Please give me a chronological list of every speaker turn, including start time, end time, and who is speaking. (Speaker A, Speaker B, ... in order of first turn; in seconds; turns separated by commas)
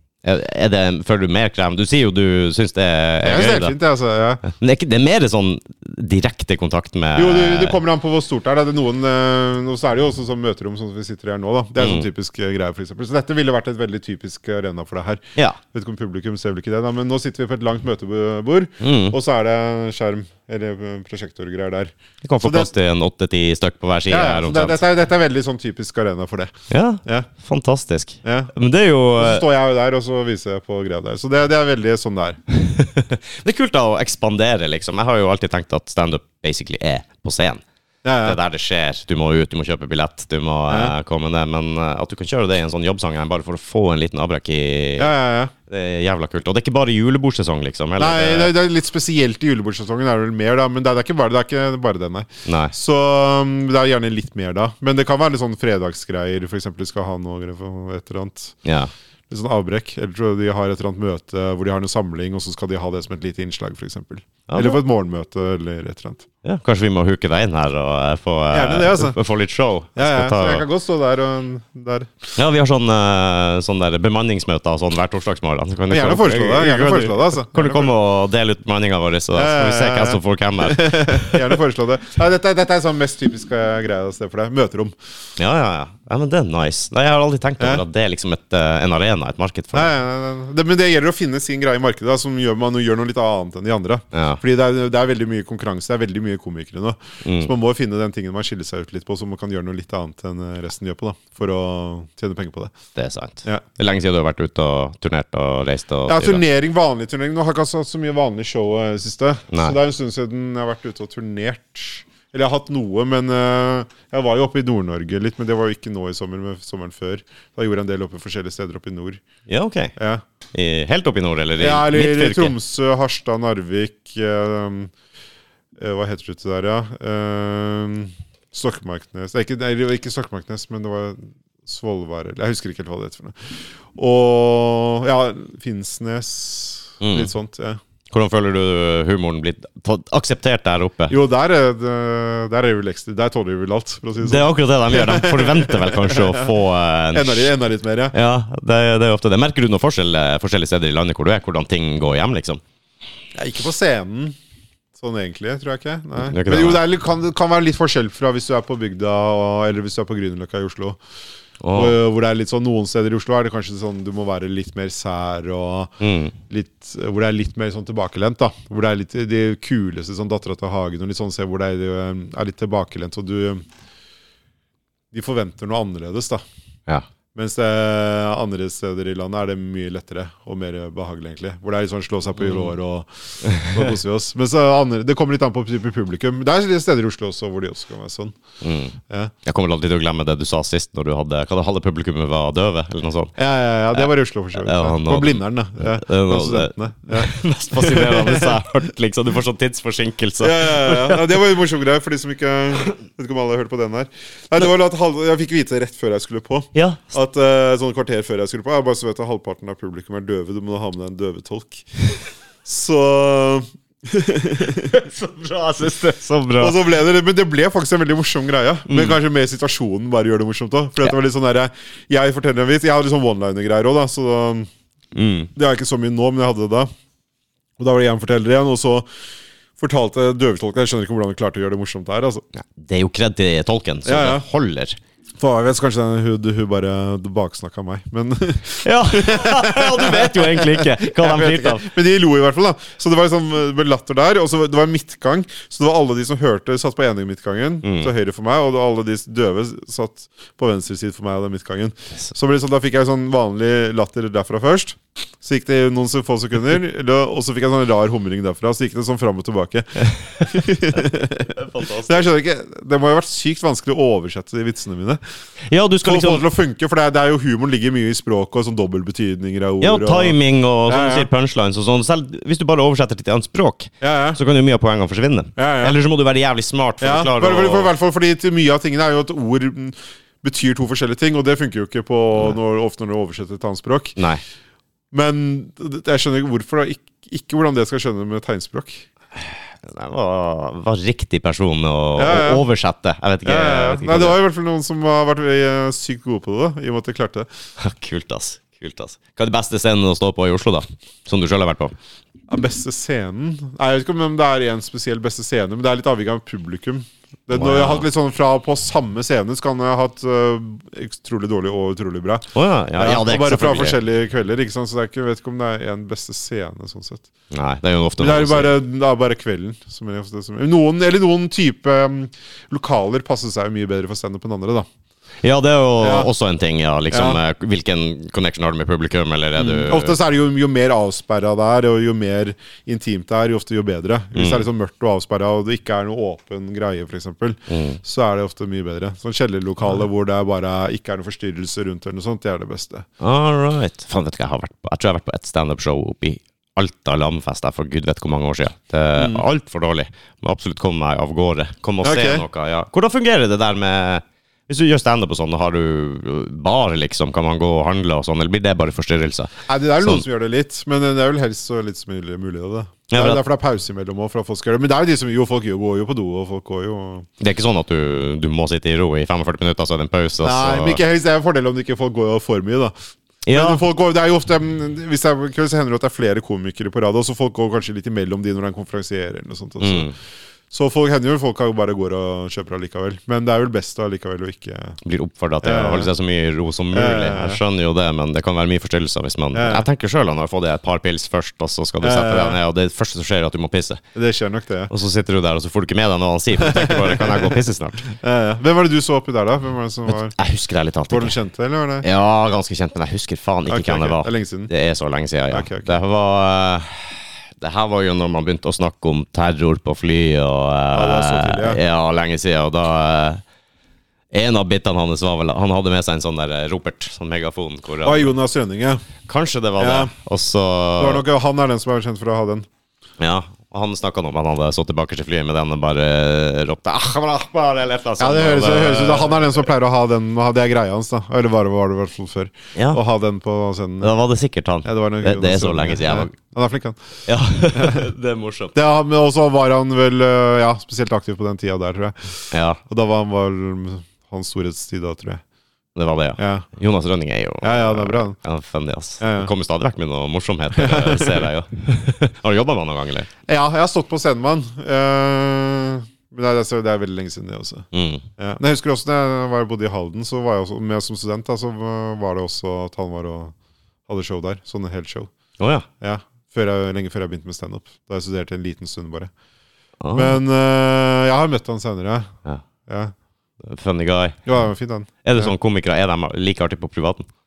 Speaker A: 0.2-3.7, Speaker B: 3.2-4.4, Speaker A: 4.4-7.8, Speaker B: 7.1-22.7, Speaker A: 11.8-12.1, Speaker A: 18.8-19.2, Speaker A: 22.2-24.8, Speaker B: 24.1-26.5, Speaker A: 26.7-29.4, Speaker B: 28.2-28.5, Speaker B: 29.2-32.4, Speaker A: 32.5-37.6, Speaker B: 38.0-38.4, Speaker A: 38.2-45.1, Speaker B: 40.7-40.9, Speaker B: 45.0-45.5, Speaker A: 45.7-48.5, Speaker B: 48.0-58.6, Speaker A: 52.5-52.7, Speaker A: 58.6-58.9, Speaker B: 59.3-66.3, Speaker A: 64.5-64.8, Speaker A: 66.4-70.6, Speaker B: 68.5-69.2, Speaker B: 70.0-72.3, Speaker A: 72.3-81.5, Speaker B: 75.9-77.9, Speaker B: 79.3-84.9, Speaker A: 85.4-89.9, Speaker B: 89.7-102.7, Speaker A: 94.1-94.4, Speaker A: 97.2-97.5, Speaker A: 102.9-106.4, Speaker B: 106.1-119.2, Speaker A: 109.5-109.8, Speaker A: 119.5-119.9, Speaker B: 120.0-120.2, Speaker A: 120.5-122.5, Speaker B: 121.6-124.9, Speaker B: 125.8-137.8, Speaker A: 137.0-137.3, Speaker A: 138.1-141.1, Speaker B: 141.1-146.5, Speaker A: 144.2-147.5, Speaker B: 147.1-148.1, Speaker A: 148.1-152.6, Speaker B: 153.3-154.3, Speaker B: 155.0-161.0, Speaker A: 156.2-156.8, Speaker A: 161.6-162.0, Speaker B: 161.7-165.9, Speaker A: 166.0-166.3, Speaker B: 166.5-173.6, Speaker B: 175.1-176.4, Speaker B: 177.3-188.4, Speaker A: 182.4-182.7, Speaker A: 183.4-183.8, Speaker A: 188.6-193.3, Speaker B: 189.1-189.3, Speaker B: 193.4-198.6, Speaker A: 193.9-201.3, Speaker B: 200.4-211.9, Speaker A: 206.7-207.1, Speaker B: 212.6-215.0, Speaker A: 214.9-216.8, Speaker B: 216.6-224.7, Speaker A: 218.9-219.2, Speaker A: 225.1-225.5, Speaker B: 225.6-226.9, Speaker B: 227.8-229.1, Speaker B: 229.8-232.4, Speaker A: 232.5-235.0, Speaker B: 234.1-234.4, Speaker B: 235.4-265.2, Speaker A: 238.8-241.9, Speaker A: 247.8-248.1, Speaker A: 260.1-262.3, Speaker A: 265.7-266.4, Speaker B: 266.0-270.4, Speaker A: 269.8-277.9, Speaker B: 270.9-271.3, Speaker B: 274.0-274.4, Speaker B: 275.6-276.0, Speaker B: 277.0-284.2, Speaker A: 284.2-284.4, Speaker B: 285.1-289.1, Speaker A: 289.8-294.4, Speaker B: 292.2-292.6, Speaker B: 293.4-297.5, Speaker A: 297.8-301.9, Speaker B: 302.5-317.3, Speaker A: 307.5-308.1, Speaker A: 312.5-314.0, Speaker A: 317.5-318.8, Speaker B: 318.2-324.9, Speaker A: 325.4-330.2, Speaker B: 326.0-326.3, Speaker B: 327.1-327.4, Speaker B: 329.6-343.1, Speaker A: 334.3-334.6, Speaker A: 337.7-338.0, Speaker A: 343.2-360.2, Speaker B: 349.2-349.4, Speaker B: 352.0-352.4, Speaker B: 359.7-367.3, Speaker A: 363.1-363.4, Speaker A: 367.4-371.0, Speaker B: 370.4-372.9, Speaker A: 373.5-373.8, Speaker B: 373.5-380.1, Speaker A: 379.8-380.1, Speaker B: 380.7-385.0, Speaker A: 385.0-394.0, Speaker B: 385.6-386.1, Speaker B: 386.9-387.6, Speaker B: 389.5-389.9, Speaker B: 392.0-392.6, Speaker B: 394.1-394.9, Speaker A: 394.9-398.0, Speaker B: 396.6-397.6, Speaker B: 398.1-400.3, Speaker A: 400.1-401.3, Speaker B: 401.1-402.1, Speaker A: 402.0-413.4, Speaker B: 403.7-404.7, Speaker B: 405.5-406.0, Speaker B: 410.9-411.8, Speaker A: 414.3-418.3, Speaker B: 418.0-419.0, Speaker A: 419.2-421.2, Speaker B: 419.8-420.1, Speaker B: 421.0-422.7, Speaker A: 423.2-429.7, Speaker B: 428.2-434.1, Speaker A: 432.7-433.0, Speaker A: 434.0-436.3, Speaker B: 434.8-437.0, Speaker A: 437.3-438.8, Speaker B: 437.7-438.0, Speaker B: 438.7-445.4, Speaker A: 442.5-442.8, Speaker A: 445.9-453.3, Speaker B: 446.4-446.7, Speaker B: 447.6-448.4, Speaker B: 449.2-449.5, Speaker B: 450.7-451.5, Speaker B: 453.5-457.9, Speaker A: 457.9-458.2, Speaker B: 458.4-463.5, Speaker B: 464.1-465.3, Speaker A: 465.6-465.9, Speaker B: 466.0-469.3, Speaker A: 470.0-470.4, Speaker B: 470.1-472.3, Speaker B: 472.9-473.1, Speaker A: 473.6-474.4, Speaker B: 474.4-475.5, Speaker A: 475.2-477.3